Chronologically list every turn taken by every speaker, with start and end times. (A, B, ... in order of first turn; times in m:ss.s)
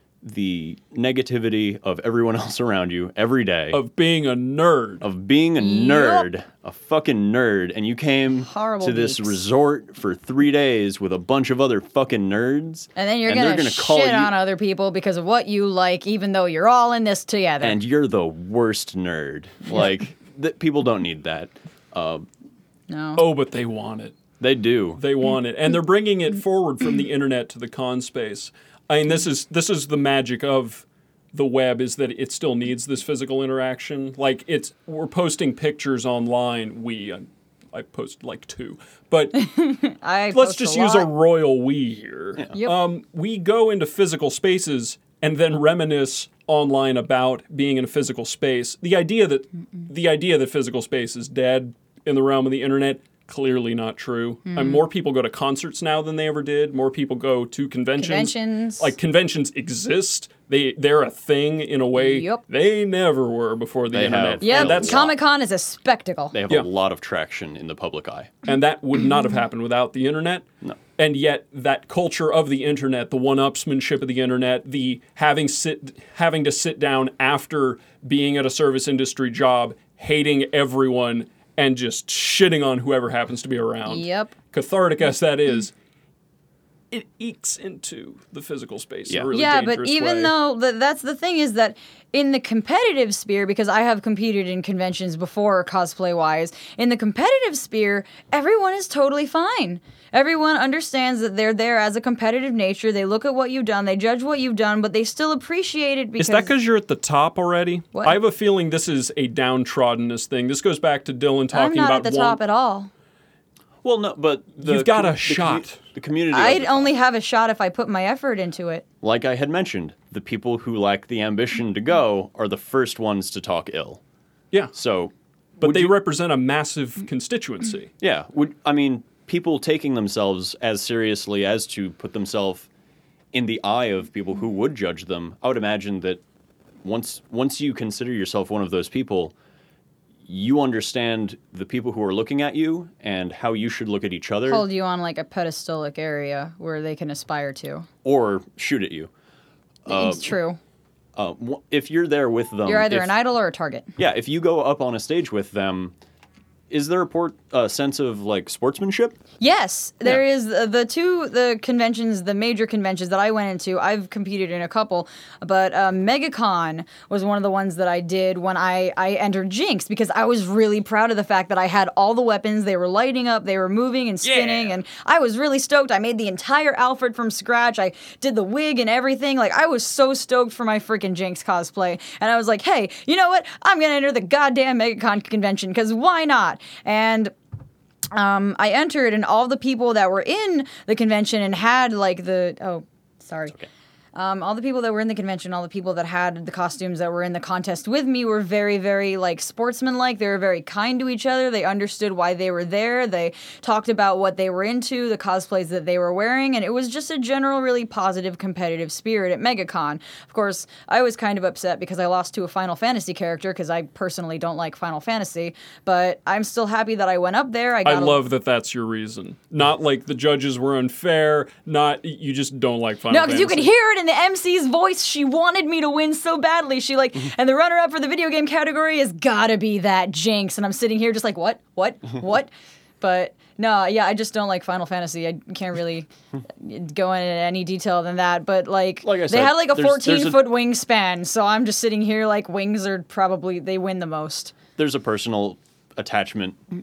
0:00.2-0:03.8 A
0:03.7-0:05.1 B
0:05.0-0:14.3 A
0:05.6-0:06.3 C
0:08.4-0:09.4 C
0:13.0-0:17.8 C
0:17.6-0:22.3 A
0:22.9-0:23.2 C
0:23.2-0:24.2 B
0:24.4-0:25.0 A
0:25.0-0:39.4 B
0:39.4-0:41.1 C
0:40.3-1:05.0 B
0:42.5-0:42.8 C
0:54.5-0:54.8 C
0:58.0-0:58.9 C
1:02.0-1:02.4 C
1:03.9-1:05.1 A
1:04.4-1:06.4 C
1:06.3-1:08.4 A
1:08.4-1:10.5 B
1:11.0-1:25.7 B
1:23.9-1:24.3 C
1:26.9-1:30.3 B
1:29.3-1:46.5 C
1:46.2-1:52.4 B
1:47.9-1:48.2 C
1:51.5-1:52.9 C
1:53.8-1:56.9 A
1:54.6-1:55.8 B
1:56.3-1:58.8 C
1:59.0-2:04.0 A
2:04.7-2:06.0 A
2:05.6-2:07.9 B
2:08.0-2:12.7 A
2:13.3-2:16.2 A
2:16.8-2:19.3 A
2:20.3-2:24.6 A
2:24.5-2:27.9 C
2:28.0-2:29.1 A
2:29.9-2:30.6 C
2:29.9-2:30.2 A
2:31.2-2:33.2 A
2:32.7-2:33.9 C
2:34.0-2:35.9 A
2:36.7-2:39.2 A
2:39.4-3:07.3 C
2:54.2-2:54.6 A
3:08.1-3:13.6 C
3:14.2-3:38.2 C
3:37.8-3:43.7 B
3:43.1-4:04.5 C
3:59.0-4:00.5 A
4:04.8-4:06.6 A